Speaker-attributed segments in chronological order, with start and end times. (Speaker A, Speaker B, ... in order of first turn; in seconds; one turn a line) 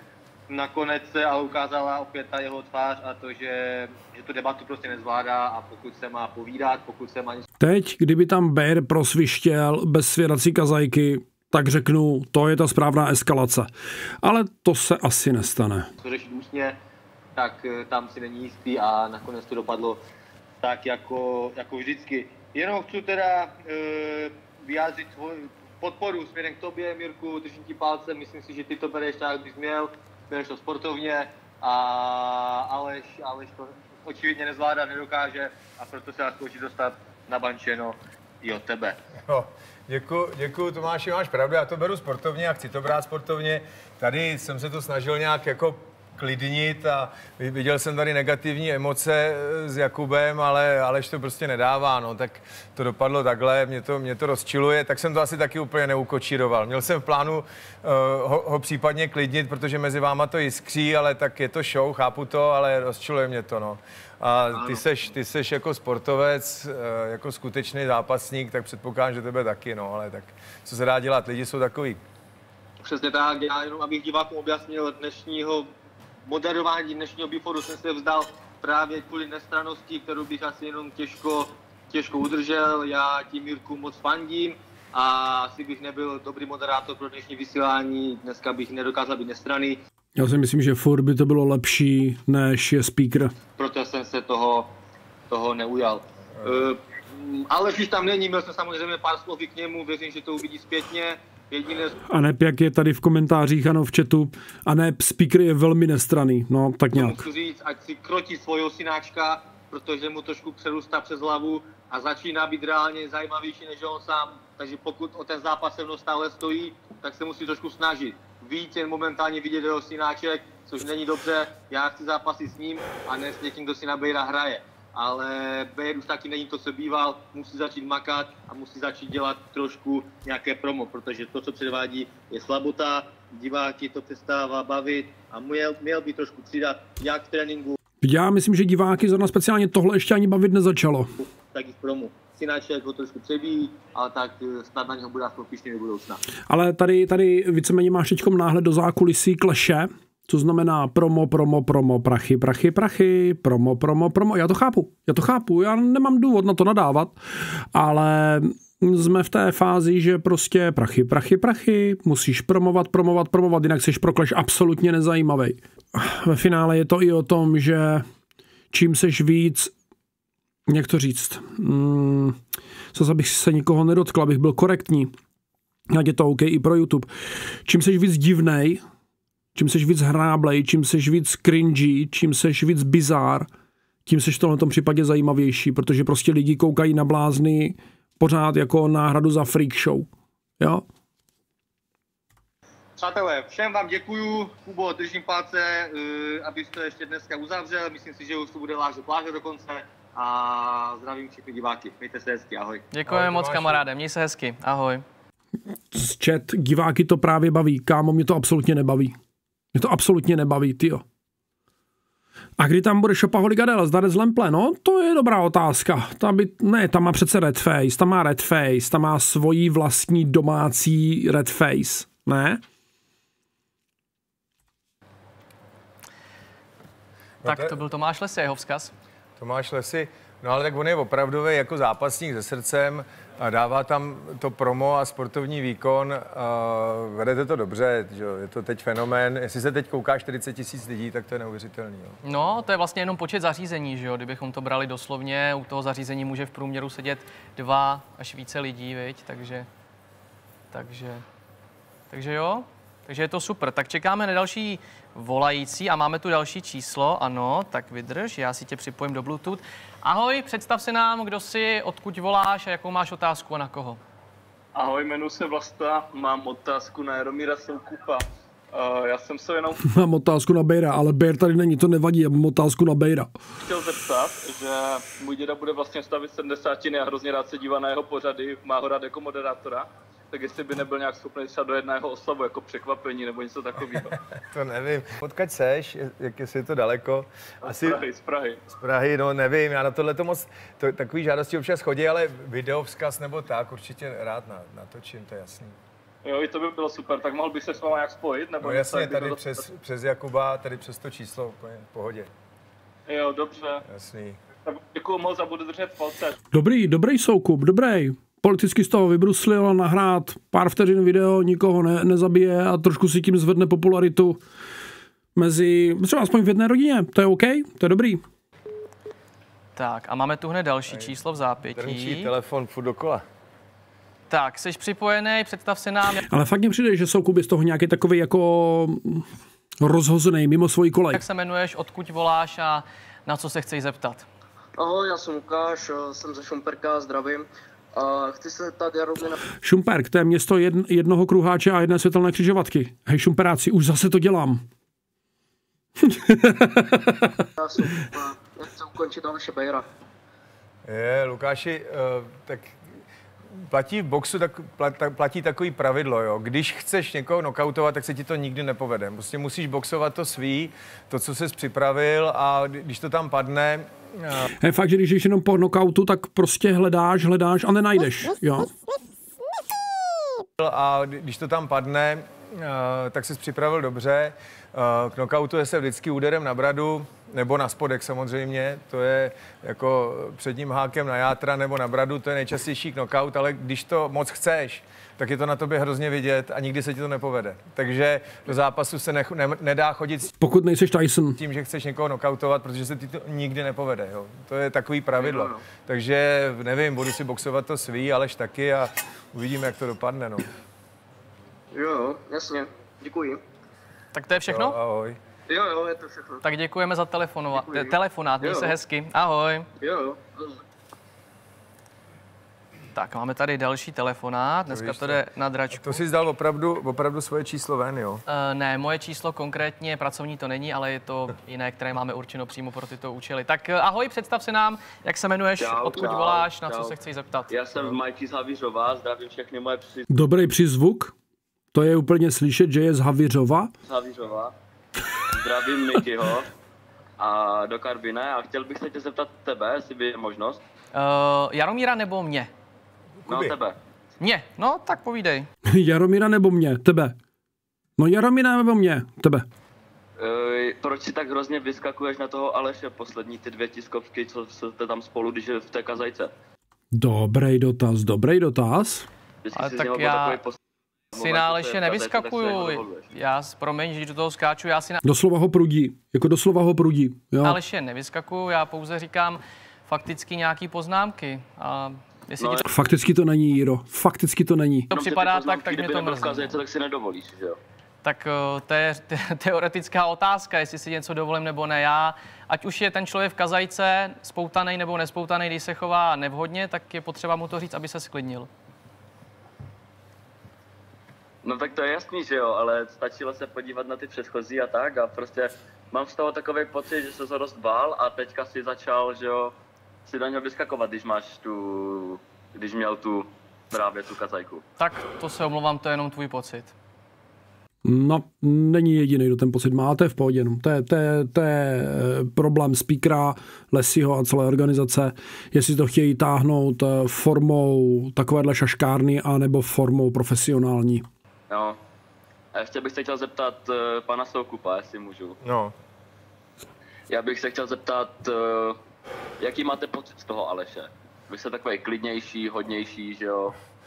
Speaker A: 0.5-7.5
Speaker B: 7.6-13.7
Speaker B: 14.2-15.9
Speaker A: 16.0-16.8
Speaker A: 17.4-20.0
Speaker A: 20.6-39.0
Speaker C: 39.3-72.0
Speaker A: 64.5-64.8
Speaker A: 72.8-75.7
Speaker A: 76.2-89.8
Speaker B: 90.2-93.3
Speaker A: 93.6-94.7
Speaker A: 95.3-102.0
Speaker B: 102.1-107.2
Speaker A: 106.9-137.8
Speaker B: 138.0-141.1
Speaker A: 141.2-146.2
Speaker B: 146.5-157.1
Speaker B: 157.7-168.0
Speaker B: 168.7-169.7
Speaker B: 170.7-172.3
Speaker B: 172.9-175.1
Speaker B: 175.9-177.1
Speaker B: 177.6-178.8
Speaker B: 179.5-183.5
Speaker B: 184.1-190.1
Speaker A: 193.0-202.8
Speaker D: 202.9-205.0
Speaker C: 203.1-203.8
Speaker B: 205.9-209.1
Speaker B: 209.7-211.0
Speaker B: 212.6-222.6
Speaker C: 227.4-227.7
Speaker D: 227.4-228.9
Speaker C: 229.4-242.2
Speaker D: 242.2-249.7
Speaker D: 250.7-251.2
Speaker D: 252.1-264.0
Speaker E: 264.7-269.8
Speaker B: 269.8-273.3
Speaker E: 273.6-284.1
Speaker C: 284.5-288.0
Speaker E: 287.6-288.6
Speaker C: 288.7-295.8
Speaker E: 296.2-299.6
Speaker C: 298.6-302.3
Speaker E: 303.1-303.8
Speaker C: 303.9-304.4
Speaker E: 304.6-306.4
Speaker B: 306.5-314.4
Speaker B: 315.4-318.2
Speaker D: 319.8-322.3
Speaker C: 321.7-323.2
Speaker D: 324.3-326.2
Speaker B: 326.3-329.2
Speaker B: 329.8-331.2
Speaker D: 331.1-334.2
Speaker F: 334.8-339.4
Speaker B: 339.6-344.6
Speaker B: 346.0-347.4
Speaker F: 347.6-349.8
Speaker C: 350.9-352.8
Speaker C: 353.7-364.4
Speaker B: 364.6-368.7
Speaker C: 370.6-390.3
Speaker B: 390.4-391.4
Speaker C: 391.4-400.4
Speaker F: 401.7-403.4
Speaker D: 404.1-404.8
Speaker C: 404.4-405.2
Speaker F: 405.5-406.4
Speaker D: 406.4-409.7
Speaker F: 409.8-410.1
Speaker G: 409.8-410.1
Speaker D: 412.9-416.0
Speaker C: 414.7-415.2
Speaker C: 415.7-418.2
Speaker D: 418.3-428.0
Speaker G: 425.6-426.9
Speaker G: 427.5-430.1
Speaker B: 430.1-431.1
Speaker B: 431.7-433.7
Speaker G: 433.9-434.5
Speaker G: 435.3-436.5
Speaker G: 437.2-440.6
Speaker D: 440.9-442.5
Speaker C: 443.2-443.6
Speaker G: 443.3-443.8
Speaker D: 444.2-445.5
Speaker B: 445.7-447.1
Speaker B: 448.0-449.4
Speaker G: 450.2-456.3
Speaker B: 456.9-459.1
Speaker G: 459.4-460.6
Speaker D: 459.5-460.4
Speaker G: 461.1-463.1
Speaker D: 461.1-465.0
Speaker B: 465.0-467.6
Speaker D: 467.4-472.6
Speaker B: 472.6-474.9
Speaker D: 474.9-476.6
Speaker G: 474.9-477.6
Speaker D: 478.0-488.5
Speaker G: 491.4-499.5
Speaker G: 500.0-504.6
Speaker D: 504.8-506.7
Speaker B: 507.8-521.0
Speaker G: 521.5-521.8
Speaker G: 522.5-525.4
Speaker C: 525.4-525.7
Speaker G: 527.1-528.8
Speaker G: 529.4-533.5